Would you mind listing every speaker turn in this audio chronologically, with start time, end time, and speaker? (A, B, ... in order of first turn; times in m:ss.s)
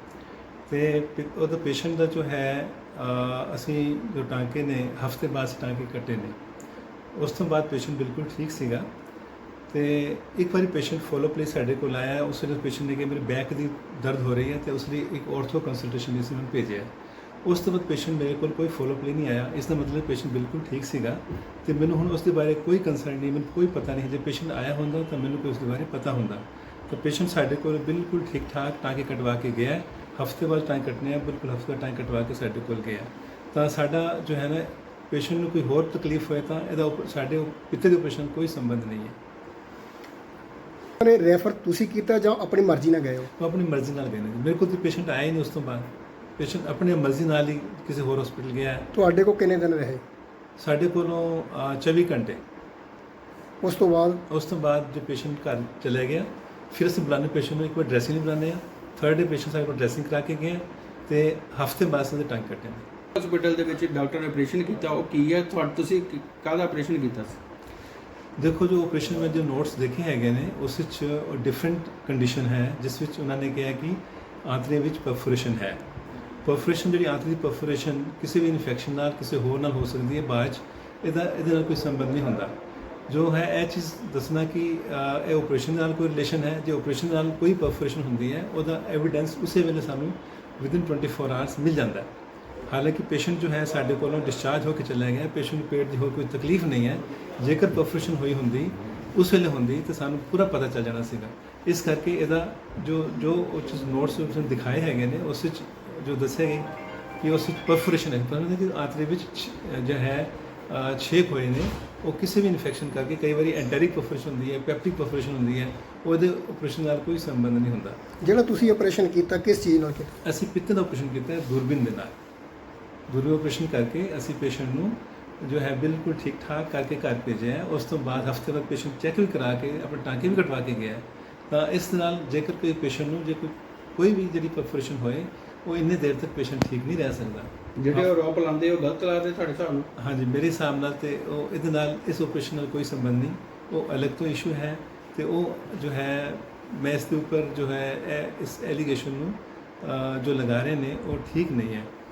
0:00.7-0:06.4 A
0:07.1-0:08.9 A
0:09.7-0:16.9 A
0:17.4-0:39.2 A
0:41.0-0:43.3 B
0:43.4-0:48.9 A
0:48.9-0:50.0 B
0:50.6-0:52.4 A
0:53.6-0:54.2 B
0:54.3-1:02.8 A
1:03.1-1:07.4 C
1:08.4-1:15.8 A
1:16.4-1:22.5 A
1:23.1-1:32.1 A
1:32.7-1:58.0 A
1:58.2-2:00.1 B
2:00.2-2:02.1 A
2:03.1-2:18.1 A
2:17.8-2:19.9 C
2:20.0-2:31.9 A